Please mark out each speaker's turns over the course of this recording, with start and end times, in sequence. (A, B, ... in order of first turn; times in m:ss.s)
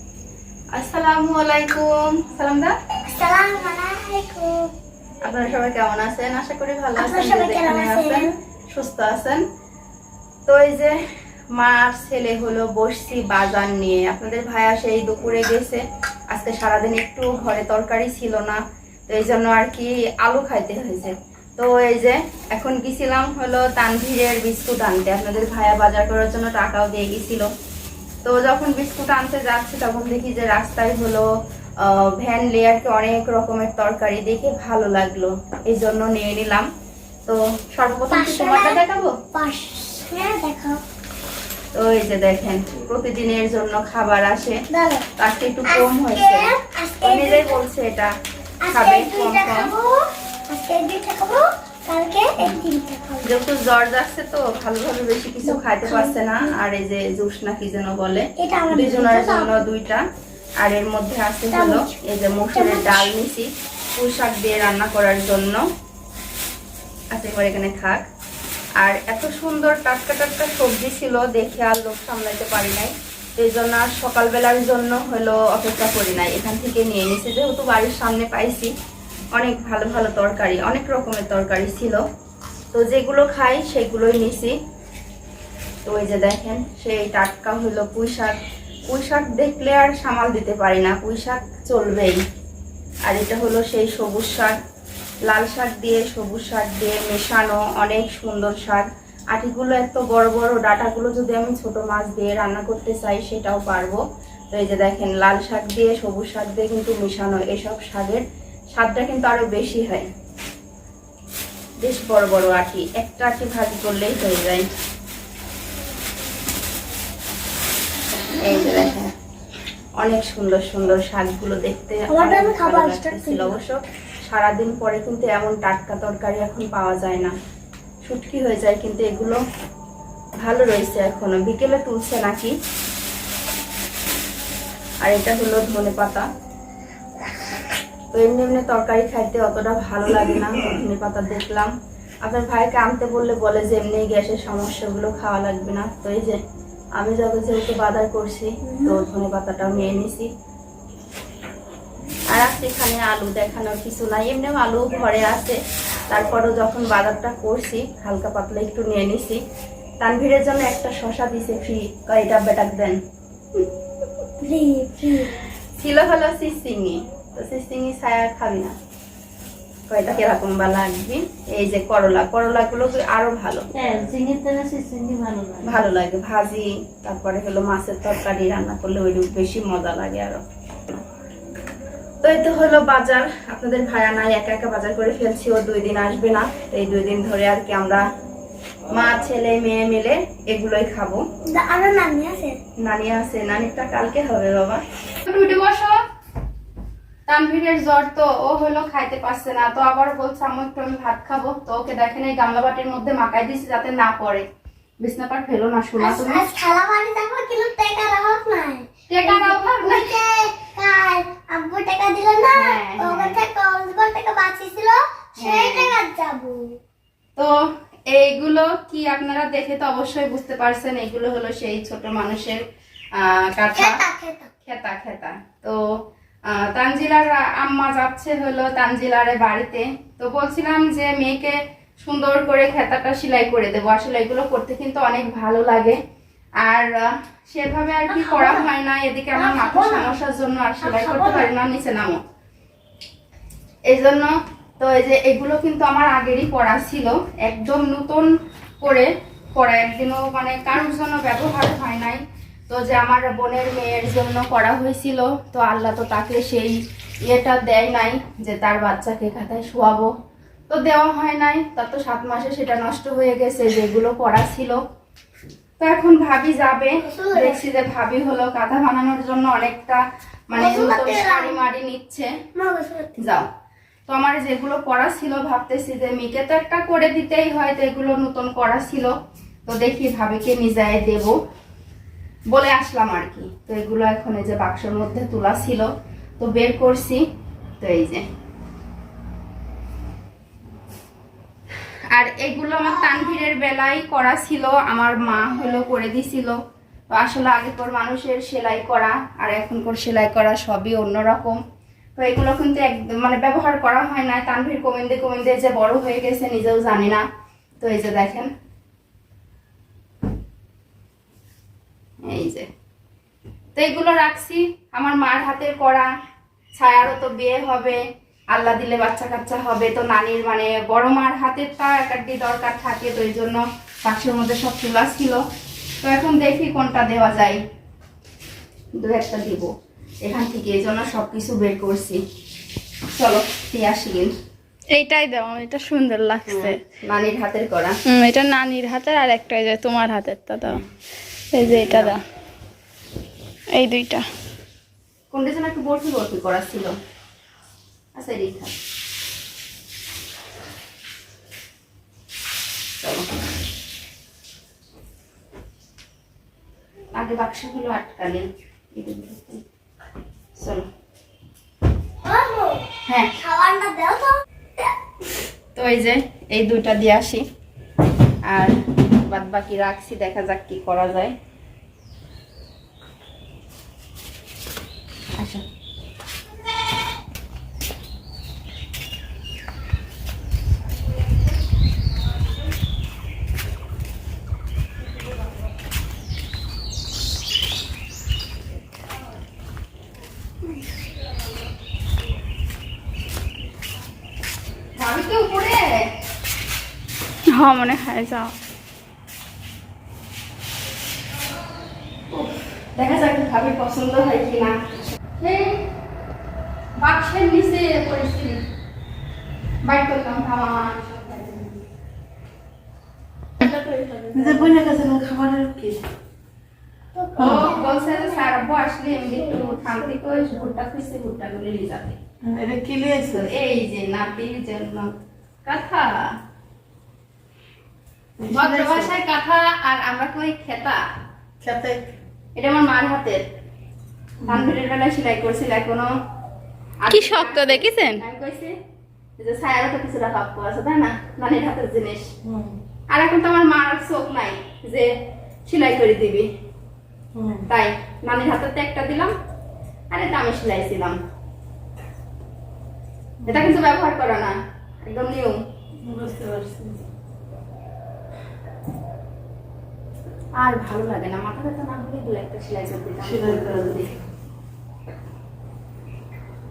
0:00.8-0:02.7 A
0:03.1-0:04.5 B
0:05.2-0:09.4 A
0:07.0-0:08.3 B
0:10.5-0:11.0 A
0:11.6-0:15.8 A
0:16.3-0:27.5 A
0:28.2-0:31.3 A
0:31.8-0:36.7 A
0:37.3-0:39.2 A
0:38.1-0:38.8 B
0:39.3-0:40.8 B
0:41.7-0:44.6 A
0:44.7-0:45.0 B
0:45.2-0:48.1 A
0:45.7-0:47.6 B
0:48.6-0:50.0 B
0:48.7-0:49.7 A
0:50.5-0:53.3 B
0:53.2-1:00.0 A
0:55.4-0:56.5 B
0:58.4-0:59.6 B
1:00.6-1:05.6 A
1:01.5-1:02.0 B
1:02.6-1:03.1 B
1:07.1-1:08.0 A
1:08.8-1:18.7 A
1:19.4-1:22.0 A
1:22.7-1:24.6 A
1:25.8-1:28.4 A
1:28.9-1:32.2 A
1:33.1-1:34.5 A
1:35.3-1:44.0 A
1:44.5-1:48.2 A
1:48.7-1:50.1 A
1:51.8-1:54.7 A
1:58.4-1:59.1 A
2:00.0-2:07.3 A
2:02.1-2:03.5 B
2:08.1-2:09.4 A
2:10.4-2:12.5 A
2:15.0-2:16.2 A
2:18.1-2:21.7 A
2:22.3-2:26.4 A
2:27.0-2:30.3 A
2:28.7-2:29.0 B
2:32.3-2:35.6 A
2:36.1-2:39.4 A
2:40.0-2:43.0 A
2:44.4-2:45.4 B
2:45.8-2:48.7 A
2:49.9-2:53.7 A
2:53.7-2:55.8 C
2:55.6-3:00.4 A
3:02.2-3:08.0 A
3:08.9-3:11.2 A
3:11.5-3:12.6 B
3:12.8-3:15.9 A
3:17.3-3:24.4 A
3:25.0-3:26.5 A
3:26.0-3:36.7 B
3:29.1-3:30.1 A
3:32.5-3:33.4 A
3:35.4-3:35.9 A
3:38.1-3:42.6 A
3:43.2-3:44.0 A
3:43.8-3:44.5 B
3:44.6-3:45.8 A
3:46.5-3:56.0 A
3:56.6-4:02.2 A
3:58.1-3:58.7 B
3:59.3-4:00.2 B
4:00.8-4:01.5 B
4:03.9-4:08.3 A
4:08.8-4:16.8 A
4:17.3-4:20.1 A
4:20.7-4:24.8 A
4:25.8-4:32.3 A
4:27.0-4:27.6 B
4:30.5-4:31.6 B
4:32.6-4:33.1 B
4:33.2-4:33.5 A
4:34.1-4:39.1 A
4:39.7-4:41.3 A
4:42.5-4:45.9 A
4:46.4-4:47.2 A
4:47.8-4:48.2 A
4:52.1-4:56.6 A
4:57.1-5:01.6 A
5:02.2-5:07.2 A
5:07.8-5:08.5 A
5:12.3-5:12.7 A
5:13.8-5:16.1 A
5:16.8-5:18.0 A
5:18.5-5:25.4 A
5:26.0-5:27.6 A
5:29.0-5:29.7 A
5:30.2-5:32.2 A
5:33.1-5:34.3 A
5:34.9-5:36.8 D
5:36.5-5:36.7 C
5:37.0-5:38.0 A
5:38.1-5:40.8 D
5:41.5-5:42.2 D
5:41.8-5:42.2 A
5:43.8-5:44.2 D
5:45.3-5:46.9 A
5:48.2-5:48.7 A
5:57.1-5:59.6 A
6:00.6-6:00.8 A
6:02.2-6:02.8 B
6:03.1-6:03.3 A
6:03.4-6:04.9 B
6:05.8-6:07.4 A
6:08.5-6:11.3 A
6:15.4-6:15.6 A
6:35.0-6:36.0 A
6:37.6-6:38.5 A
6:42.3-6:44.8 A
6:45.4-6:45.8 A
6:47.0-6:48.6 A
6:49.8-6:51.8 A
6:53.7-6:54.6 B
6:54.3-6:56.0 C
6:57.1-7:00.8 B
6:57.4-6:57.7 C
6:57.4-7:02.2 A
7:02.4-7:03.5 C
7:03.3-7:06.2 A
7:08.4-7:09.2 C
7:08.5-7:11.0 A
7:11.6-7:12.0 C
7:12.6-7:13.4 A
7:14.4-7:14.7 C
7:14.5-7:16.1 A
7:17.0-7:18.7 A
7:17.1-7:18.2 D
7:19.4-7:22.3 A
7:22.5-7:22.8 C
7:23.1-7:25.1 A
7:25.7-7:26.5 A
7:27.4-7:27.6 C
7:27.7-7:29.3 A
7:30.1-7:31.2 A
7:33.4-7:33.8 C
7:33.5-7:35.6 A
7:36.0-7:37.1 C
7:40.6-7:44.2 A
7:43.2-7:44.1 C